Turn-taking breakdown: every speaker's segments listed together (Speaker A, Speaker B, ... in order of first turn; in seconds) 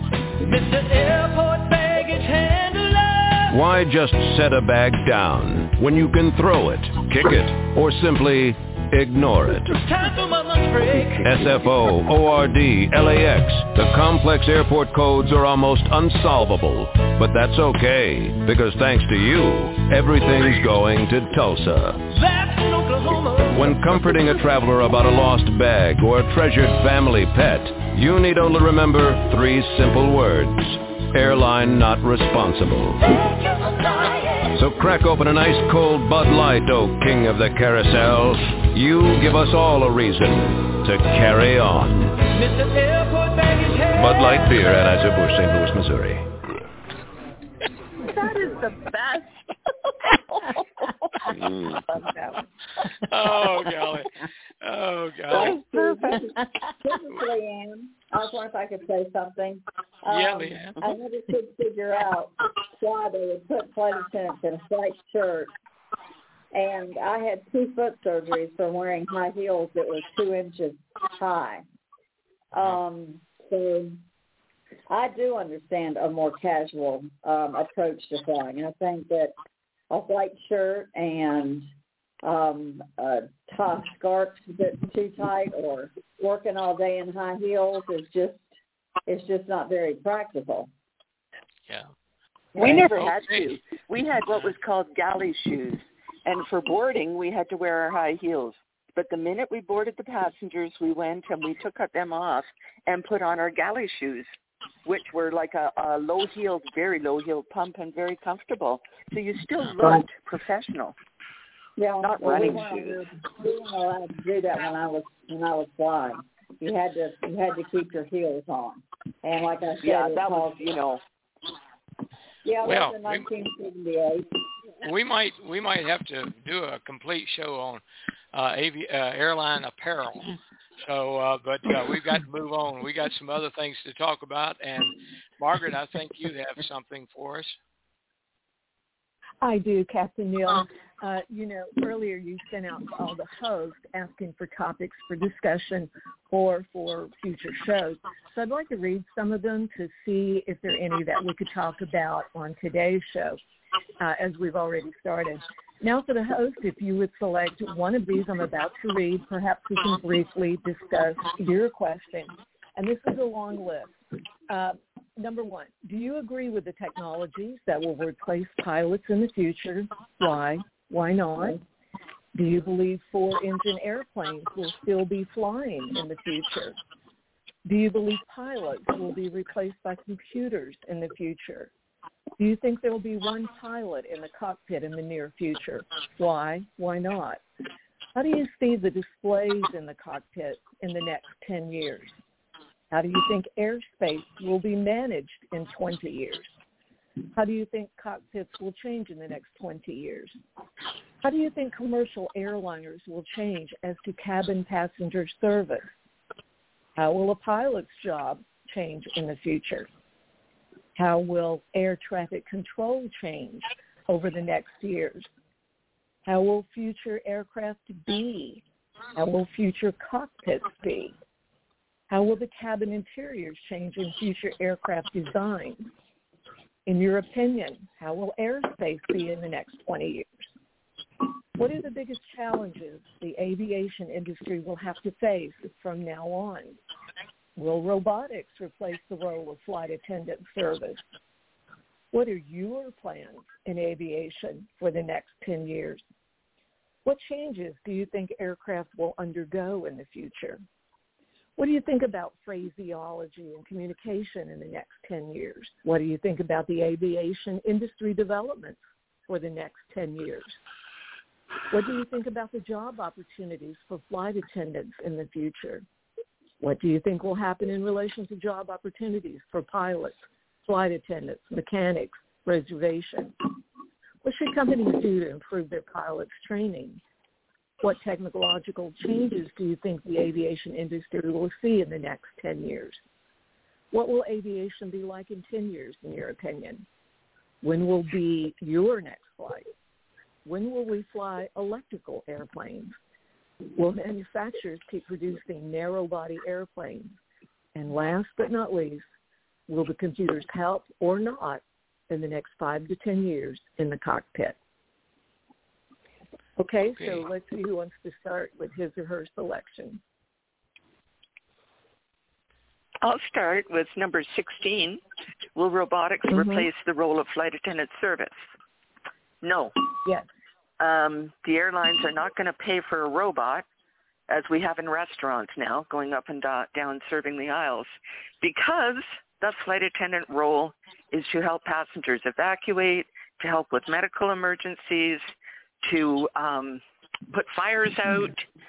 Speaker A: 0.4-3.7, 9.4-11.9, 22.1-24.4, 33.0-34.6, 42.3-45.0
Speaker B: 3.5-9.7, 11.2-22.0, 23.5-33.0, 34.5-42.2, 43.9-46.3
Speaker C: 53.0-55.6, 60.1-60.8, 92.6-93.5, 122.6-123.3, 124.8-127.8, 128.3-137.6, 306.9-307.2
Speaker D: 55.3-65.5, 66.5-71.7, 72.5-74.0, 74.9-79.3, 79.9-81.7, 82.2-88.5, 89.1-90.7, 92.5-92.8, 111.8-120.6, 122.4-124.3
Speaker E: 92.6-104.3, 104.8-111.0, 112.0-113.1, 119.8-121.0, 313.0-315.0, 315.5-318.4, 319.4-319.7, 320.8-323.6, 324.3-335.2, 335.8-338.5
Speaker F: 139.4-153.4, 154.0-164.0, 164.5-171.6, 172.3-176.8, 177.6-181.7, 182.4-187.4, 188.1-192.1, 192.9-196.5, 197.3-200.3, 201.2-205.9, 206.9-209.9, 210.9-215.3, 216.2-218.6, 219.2-221.2, 222.1-225.9, 226.8-230.5, 231.6-236.8, 237.6-241.0, 242.1-246.0, 247.0-250.6, 251.6-260.6, 261.7-265.8, 266.6-273.4, 274.2-277.0, 277.8-283.0, 283.9-286.9, 287.6-289.7, 290.4-292.9, 293.8-297.2, 297.7-299.1, 299.7-304.6, 306.6-310.0, 316.3-316.7